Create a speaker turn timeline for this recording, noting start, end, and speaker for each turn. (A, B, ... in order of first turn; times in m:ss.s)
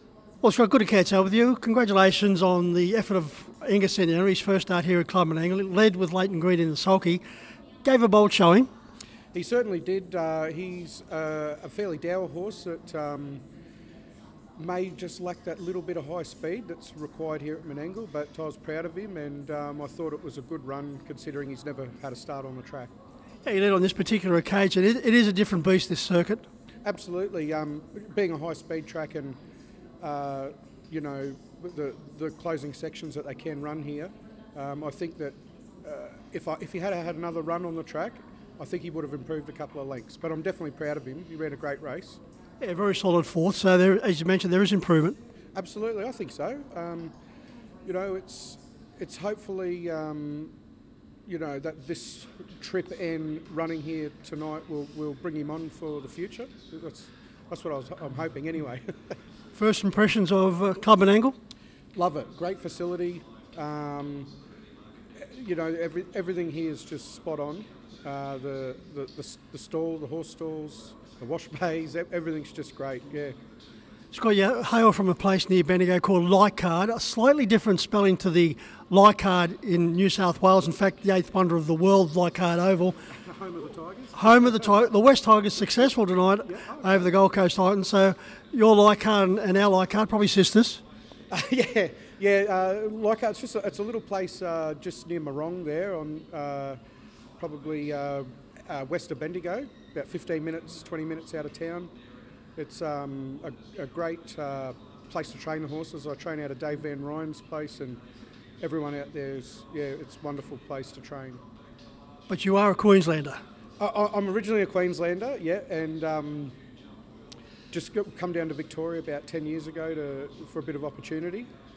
0:00.4-0:07.2 A
0:07.8-0:08.7 A
0:09.3-0:13.4 B
0:14.6-0:22.9 B
0:23.4-0:26.4 A
0:26.8-0:29.4 B
0:30.0-0:42.2 B
0:42.6-0:45.2 A
0:45.5-0:47.1 B
0:47.8-0:50.5 B
0:51.2-0:58.9 B
0:59.5-1:01.4 A
1:01.9-1:04.3 B
1:05.2-1:13.4 B
1:14.1-1:23.0 A
1:23.2-1:24.5 B
1:24.1-1:30.8 A
1:26.5-1:27.1 B
1:31.3-1:36.8 B
1:37.4-1:41.9 B
1:42.6-1:48.0 B
1:48.6-1:51.4 B
1:52.3-1:53.4 A
1:53.8-1:56.5 B
1:57.7-2:01.5 B